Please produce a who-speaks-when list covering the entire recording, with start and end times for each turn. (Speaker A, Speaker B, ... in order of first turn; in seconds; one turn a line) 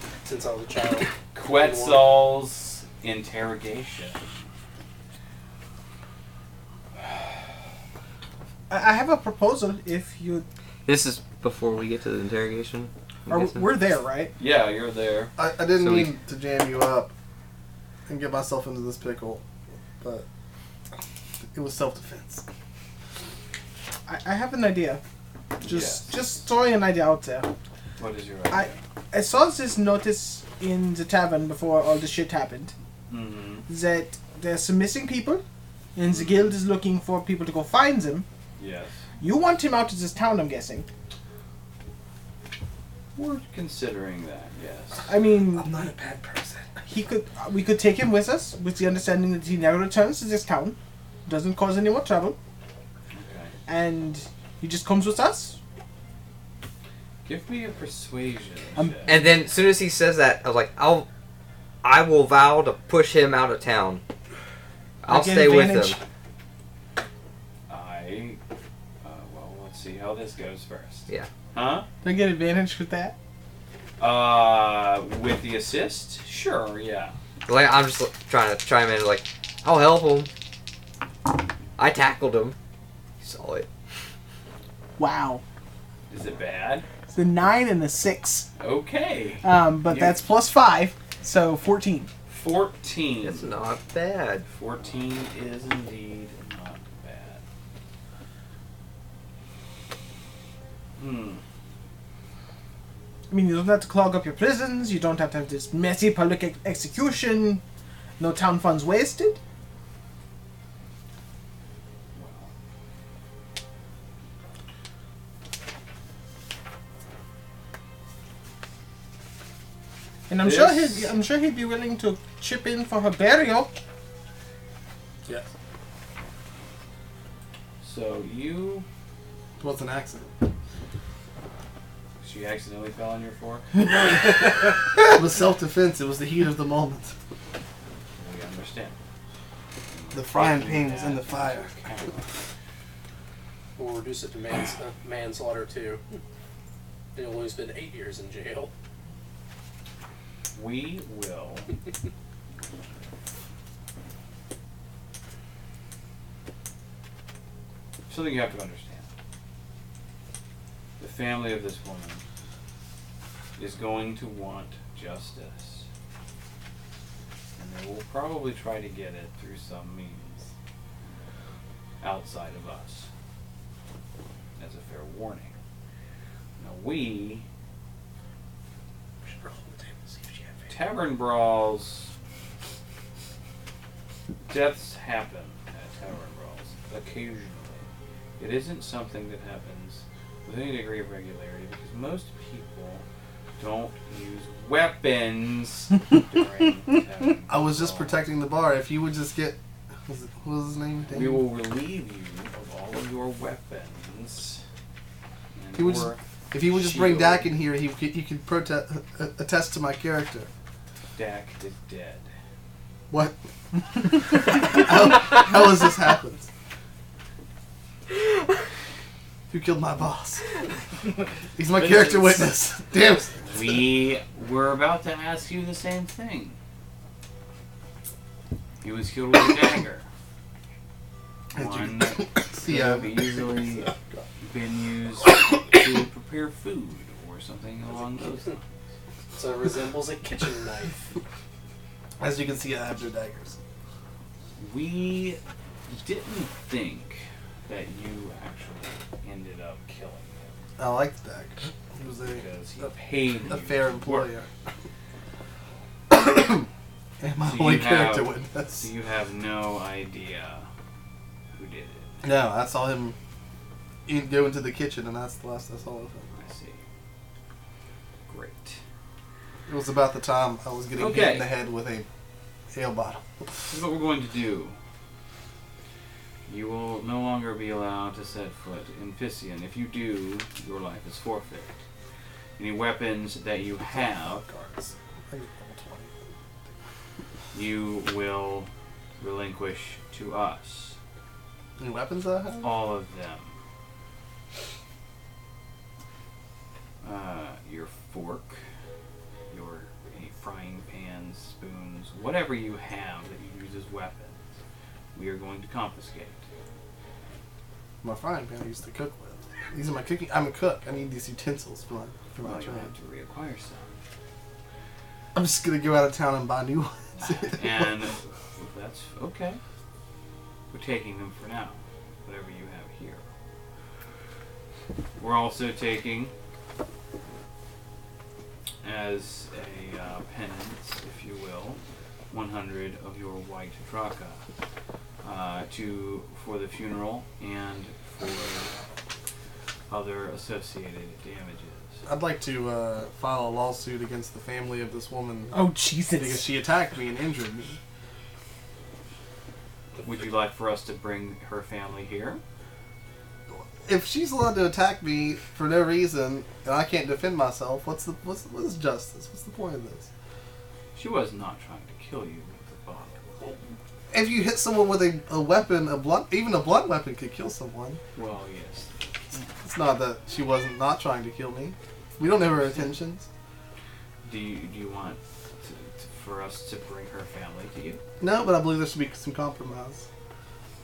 Speaker A: 0.2-2.1
Speaker B: 1.3-4.2
Speaker C: 8.7-10.4
Speaker D: 10.8-13.7
Speaker C: 13.3-14.3
Speaker B: 14.4-15.3
Speaker E: 15.4-17.1
Speaker D: 15.7-16.1
Speaker E: 18.1-19.4
Speaker E: 20.0-20.2
Speaker E: 21.5-22.4
Speaker C: 24.1-25.0
Speaker B: 25.6-26.1
Speaker C: 25.6-27.5
Speaker B: 28.0-28.7
Speaker C: 28.5-32.7
Speaker B: 33.1-33.6
Speaker C: 33.7-35.4
Speaker C: 35.9-38.2
Speaker B: 36.0-36.5
Speaker B: 38.6-39.0
Speaker C: 39.2-40.9
Speaker B: 43.1-45.1
Speaker C: 45.1-45.7
Speaker E: 45.5-46.7
Speaker C: 46.9-52.4
Speaker B: 53.1-53.5
Speaker C: 53.7-55.6
Speaker B: 57.2-59.2
Speaker C: 58.7-59.3
Speaker D: 59.0-61.1
Speaker D: 61.8-64.0
Speaker D: 65.0-66.0
Speaker C: 65.0-66.0
Speaker B: 67.7-68.4
Speaker B: 69.0-71.9
Speaker C: 72.0-73.1
Speaker B: 74.0-77.1
Speaker D: 77.5-80.3
Speaker D: 81.8-82.5
Speaker D: 83.2-83.7
Speaker C: 85.0-85.4
Speaker B: 86.1-86.8
Speaker C: 87.1-88.5
Speaker B: 88.6-90.2
Speaker C: 89.4-92.1
Speaker B: 92.3-93.5
Speaker D: 93.2-94.4
Speaker B: 94.5-97.4
Speaker B: 101.0-101.4
Speaker C: 103.3-107.6
Speaker C: 108.2-109.4
Speaker B: 112.1-112.5
Speaker C: 120.3-123.7
Speaker B: 120.4-121.1
Speaker B: 127.8-128.8
Speaker E: 129.6-130.3
Speaker B: 132.2-133.9
Speaker E: 133.9-137.1
Speaker B: 138.2-138.9
Speaker B: 139.9-142.2
Speaker E: 140.1-142.0
Speaker A: 143.8-146.0
Speaker A: 147.2-148.7
Speaker B: 150.5-151.7
Speaker B: 158.1-159.1
Speaker B: 161.0-162.2
Speaker B: 163.6-165.9
Speaker B: 167.6-170.5
Speaker B: 172.0-173.1
Speaker B: 174.6-175.5
Speaker B: 176.6-177.4
Speaker A: 179.2-180.7
Speaker B: 180.7-182.1
Speaker B: 184.4-187.8
Speaker B: 188.4-193.0
Speaker B: 193.6-198.2
Speaker E: 197.5-201.4
Speaker B: 201.1-204.6
Speaker B: 205.5-207.6
Speaker E: 205.7-210.5
Speaker B: 211.2-212.3
Speaker E: 213.1-216.5
Speaker E: 219.5-220.6
Speaker E: 221.5-223.6
Speaker B: 221.7-222.6
Speaker B: 223.4-226.6
Speaker B: 228.8-230.1
Speaker B: 231.5-238.6
Speaker E: 231.6-234.2
Speaker A: 239.3-241.0
Speaker E: 242.2-243.6
Speaker B: 244.6-250.5
Speaker E: 250.8-252.4
Speaker B: 252.3-254.3
Speaker E: 253.5-254.5
Speaker E: 256.1-256.7
Speaker E: 257.2-258.9
Speaker B: 257.4-260.7
Speaker B: 261.5-262.1
Speaker E: 262.2-263.1
Speaker E: 264.1-266.4
Speaker B: 266.3-266.8
Speaker B: 268.3-268.8
Speaker E: 269.7-272.1
Speaker B: 270.9-271.5
Speaker E: 272.7-273.8
Speaker B: 273.7-274.8
Speaker B: 276.5-281.8
Speaker B: 282.6-284.5
Speaker E: 283.9-286.7
Speaker B: 287.5-291.0
Speaker E: 291.8-292.7
Speaker B: 292.6-293.5
Speaker B: 297.0-298.6
Speaker B: 299.5-304.4
Speaker B: 305.1-306.4
Speaker E: 308.0-312.9
Speaker B: 312.4-314.0
Speaker E: 315.3-318.0
Speaker B: 317.3-319.6
Speaker B: 320.7-323.2
Speaker B: 325.2-326.3
Speaker B: 328.8-331.8
Speaker B: 332.3-334.4
Speaker B: 335.2-338.7
Speaker B: 339.9-342.0
Speaker E: 342.1-345.6
Speaker C: 345.5-346.4
Speaker E: 346.1-347.8
Speaker B: 350.0-352.4
Speaker E: 353.5-360.1
Speaker B: 360.9-363.6
Speaker E: 364.1-368.0
Speaker B: 368.1-369.4
Speaker E: 369.6-373.3
Speaker B: 372.5-372.9
Speaker B: 374.2-378.0
Speaker E: 378.2-380.0